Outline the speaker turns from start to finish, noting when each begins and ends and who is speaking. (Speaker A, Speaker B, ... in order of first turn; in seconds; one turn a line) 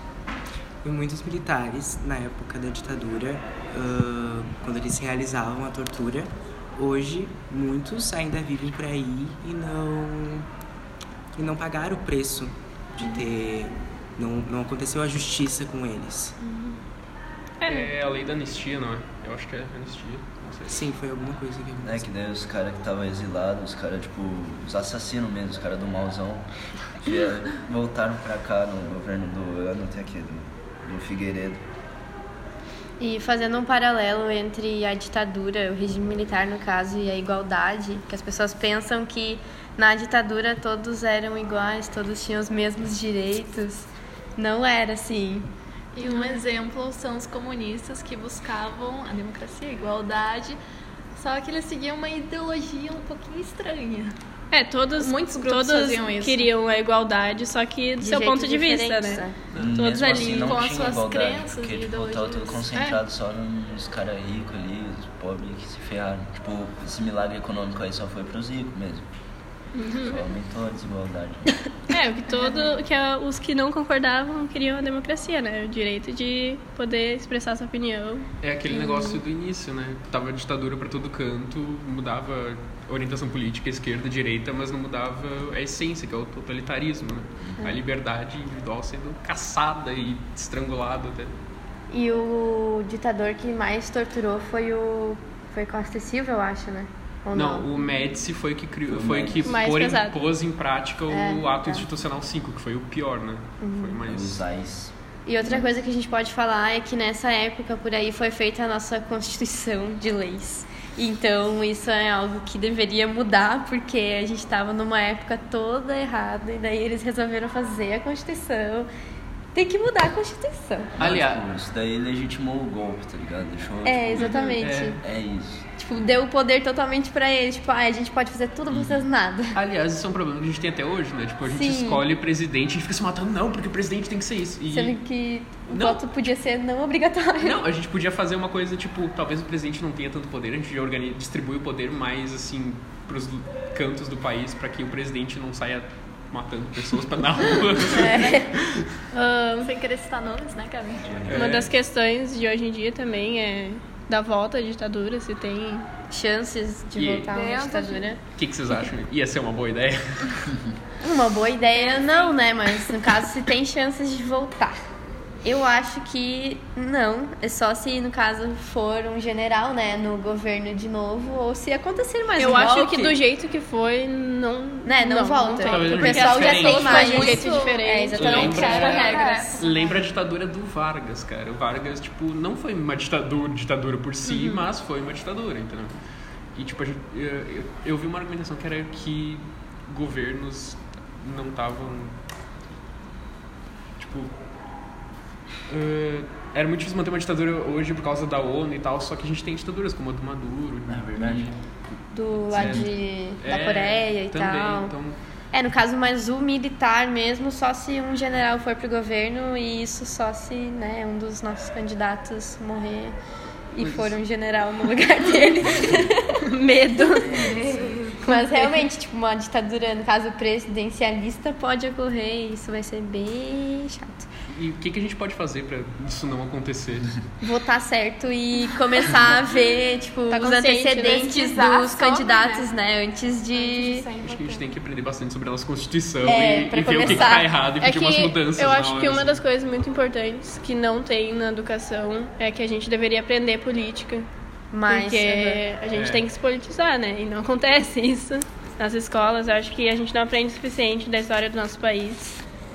Speaker A: 0.8-10.5
Speaker A: 11.4-16.4
Speaker B: 16.5-16.8
Speaker B: 17.6-17.9
Speaker C: 17.7-20.9
Speaker A: 20.7-22.1
Speaker D: 21.8-26.5
Speaker D: 27.0-31.6
Speaker E: 33.0-45.5
Speaker F: 45.9-50.6
Speaker E: 46.0-46.3
Speaker F: 51.2-54.1
Speaker B: 54.5-59.2
Speaker F: 55.0-56.5
Speaker E: 58.0-59.4
Speaker C: 59.5-60.4
Speaker D: 59.5-69.1
Speaker B: 59.8-60.6
Speaker F: 60.1-63.0
Speaker B: 69.8-70.2
Speaker D: 70.0-71.5
Speaker B: 71.9-78.3
Speaker C: 78.4-91.3
Speaker E: 78.7-79.2
Speaker E: 91.9-97.9
Speaker C: 97.3-104.4
Speaker D: 98.9-99.6
Speaker B: 99.4-100.2
Speaker E: 101.1-101.9
Speaker E: 103.6-104.0
Speaker D: 104.1-104.9
Speaker E: 105.2-118.9
Speaker E: 119.5-120.9
Speaker D: 121.0-125.7
Speaker C: 121.0-121.4
Speaker E: 123.8-125.0
Speaker C: 124.2-125.0
Speaker E: 125.8-129.6
Speaker D: 128.7-129.0
Speaker C: 129.5-135.0
Speaker E: 131.4-132.1
Speaker E: 134.7-137.6
Speaker C: 135.7-136.1
Speaker C: 137.4-148.9
Speaker E: 147.9-148.5
Speaker B: 149.1-149.7
Speaker F: 149.4-151.1
Speaker D: 151.1-151.6
Speaker C: 151.3-151.7
Speaker B: 151.3-155.9
Speaker E: 156.1-158.2
Speaker C: 157.0-157.3
Speaker F: 157.3-158.1
Speaker C: 158.4-160.6
Speaker E: 161.0-164.8
Speaker F: 161.8-162.4
Speaker E: 165.4-173.2
Speaker B: 172.4-178.5
Speaker E: 174.9-179.7
Speaker C: 175.6-177.2
Speaker F: 176.4-177.8
Speaker C: 178.2-186.0
Speaker F: 178.4-179.8
Speaker B: 184.2-184.7
Speaker C: 186.6-192.2
Speaker C: 194.0-194.3
Speaker C: 195.7-201.6
Speaker D: 200.9-201.6
Speaker E: 202.1-204.9
Speaker C: 202.5-205.2
Speaker D: 202.6-202.9
Speaker E: 205.5-213.2
Speaker E: 213.7-224.3
Speaker C: 213.8-214.2
Speaker B: 216.4-217.4
Speaker F: 217.5-218.2
Speaker C: 224.5-227.2
Speaker E: 227.4-234.1
Speaker B: 230.3-231.6
Speaker F: 231.5-232.7
Speaker F: 233.5-234.7
Speaker C: 234.2-239.4
Speaker E: 236.2-237.5
Speaker B: 237.8-244.3
Speaker E: 244.7-245.6
Speaker B: 244.8-252.4
Speaker C: 245.9-246.3